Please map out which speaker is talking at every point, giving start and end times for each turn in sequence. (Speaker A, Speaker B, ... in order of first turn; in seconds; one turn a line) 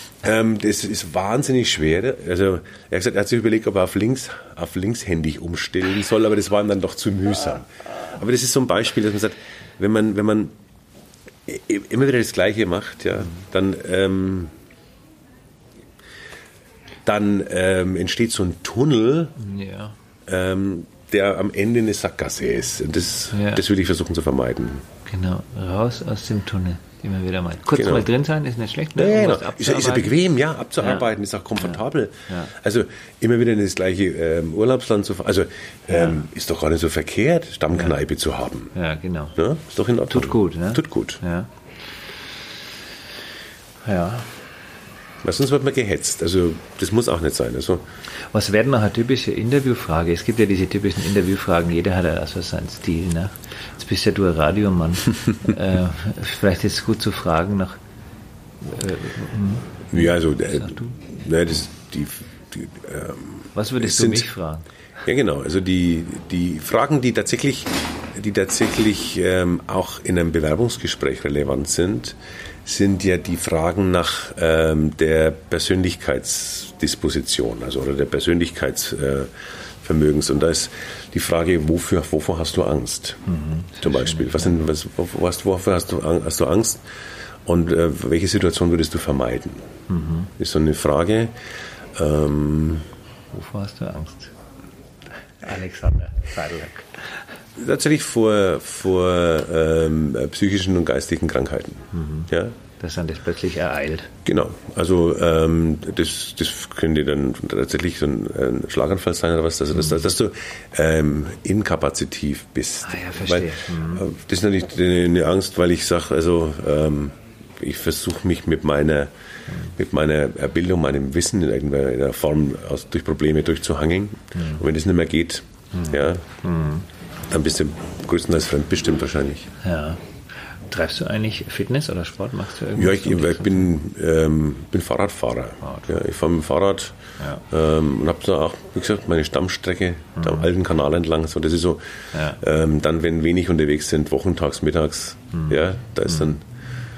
Speaker A: 0.2-10.5
Speaker A: 11.4-14.5
Speaker A: 17.1-19.4
Speaker B: 19.4-20.0
Speaker A: 20.3-24.9
Speaker B: 23.3-23.6
Speaker B: 25.1-30.1
Speaker A: 27.6-28.1
Speaker A: 29.0-38.7
Speaker B: 30.8-31.0
Speaker B: 31.6-32.5
Speaker B: 35.9-36.3
Speaker B: 38.7-39.3
Speaker A: 39.4-41.2
Speaker B: 40.1-41.5
Speaker B: 43.8-44.4
Speaker A: 45.2-47.8
Speaker B: 48.3-57.8
Speaker B: 58.6-60.9
Speaker A: 59.9-64.3
Speaker B: 63.5-64.7
Speaker A: 65.0-79.3
Speaker A: 79.8-86.8
Speaker B: 83.3-84.6
Speaker A: 87.5-89.7
Speaker B: 89.9-90.3
Speaker A: 90.4-91.3
Speaker A: 92.0-92.9
Speaker B: 93.3-94.3
Speaker B: 95.4-97.2
Speaker A: 97.6-102.5
Speaker B: 101.9-104.1
Speaker A: 104.2-119.1
Speaker B: 112.8-114.0
Speaker A: 119.6-126.2
Speaker B: 124.3-124.6
Speaker B: 125.7-126.9
Speaker A: 127.3-129.5
Speaker B: 129.6-130.0
Speaker B: 130.7-133.7
Speaker A: 132.8-137.0
Speaker B: 135.6-136.0
Speaker A: 137.5-146.4
Speaker B: 140.2-140.5
Speaker B: 142.1-142.4
Speaker B: 145.3-146.3